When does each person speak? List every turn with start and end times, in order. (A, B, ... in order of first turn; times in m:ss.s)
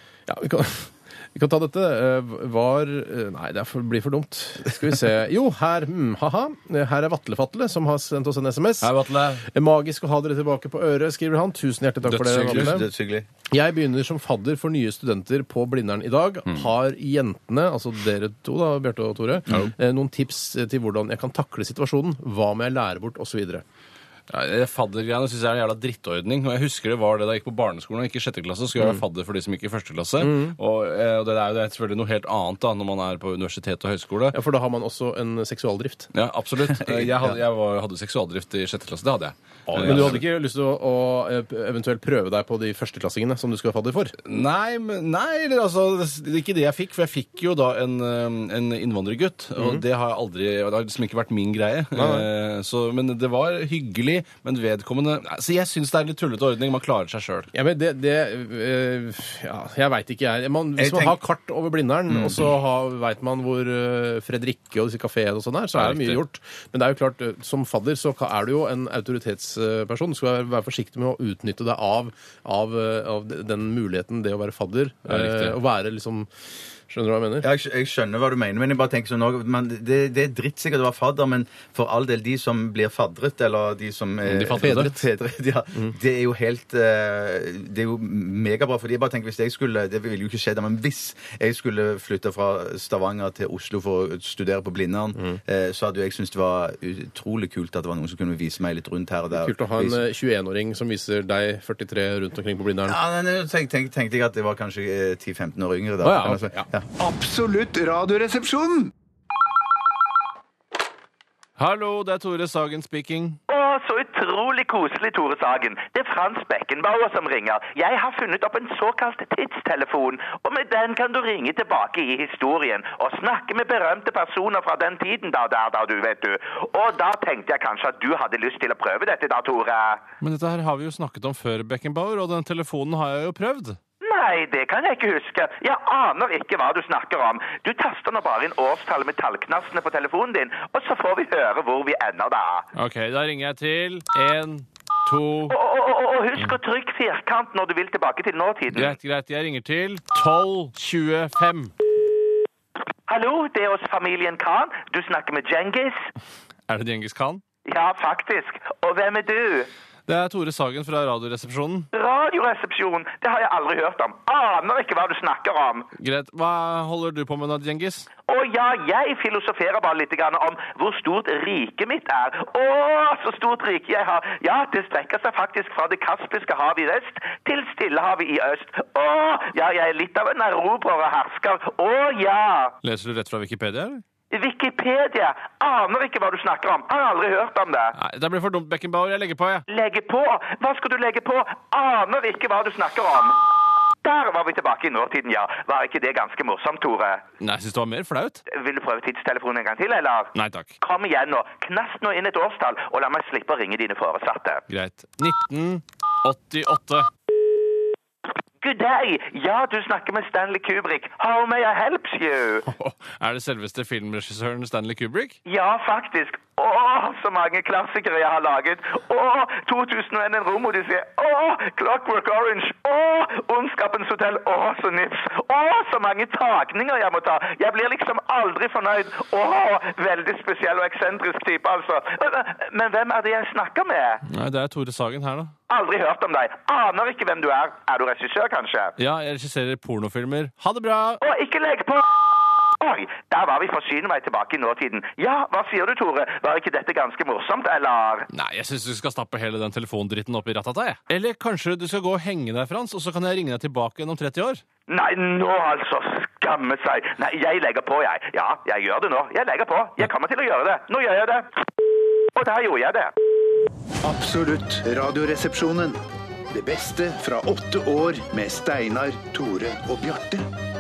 0:00.3-0:08.9 A
0:08.8-0:09.5 B
0:09.5-0:12.8 A
0:12.1-0:12.9 B
0:12.5-0:13.3 C
0:13.5-0:23.6 A
0:24.3-0:34.4 B
0:30.2-0:30.6 A
0:34.3-0:36.1 A
0:36.1-0:40.2 B
0:36.8-0:37.2 C
0:39.7-0:40.2 C
0:39.8-0:44.1 A
0:44.2-0:57.5 B
0:51.9-0:52.3 A
0:57.5-1:16.3 A
1:00.8-1:01.2 C
1:02.1-1:02.4 C
1:05.8-1:06.2 B
1:15.1-1:15.6 B
1:16.9-1:17.5 A
1:17.4-1:40.0 C
1:24.3-1:25.0 B
1:24.6-1:25.0 A
1:39.4-1:43.0 A
1:42.8-1:46.8 C
1:46.0-1:46.4 A
1:47.0-1:48.9 D
1:51.6-1:53.4 B
1:53.5-2:10.0 E
2:10.2-2:13.8 B
2:14.0-2:22.7 E
2:22.8-2:25.5 B
2:25.5-2:28.9 E
2:28.7-2:31.7 B
2:33.1-2:36.1 E
2:36.7-2:37.4 B
2:37.6-2:39.7 E
2:40.1-2:41.9 B
2:41.9-2:45.9 E
2:46.0-2:48.1 B
2:48.3-3:02.8 E
3:02.8-3:04.0 B
3:04.3-3:07.9 E
3:08.0-3:09.6 B
3:09.7-3:13.4 E
3:14.0-3:17.2 E
3:17.4-3:18.4 B
3:18.5-3:24.6 E
3:20.4-3:20.7 B
3:24.7-3:27.1 B
3:28.6-3:32.7 E
3:32.7-3:35.4 B
3:35.5-3:54.2 E
3:54.3-3:55.5 B
3:55.7-3:58.9 E
3:59.0-4:01.2 B
4:01.2-4:02.1 E
4:02.8-4:08.3 E
4:08.3-4:14.6 B
4:14.9-4:21.5 E
4:22.4-4:23.1 E
4:24.0-4:26.0 D
4:26.5-4:30.5 D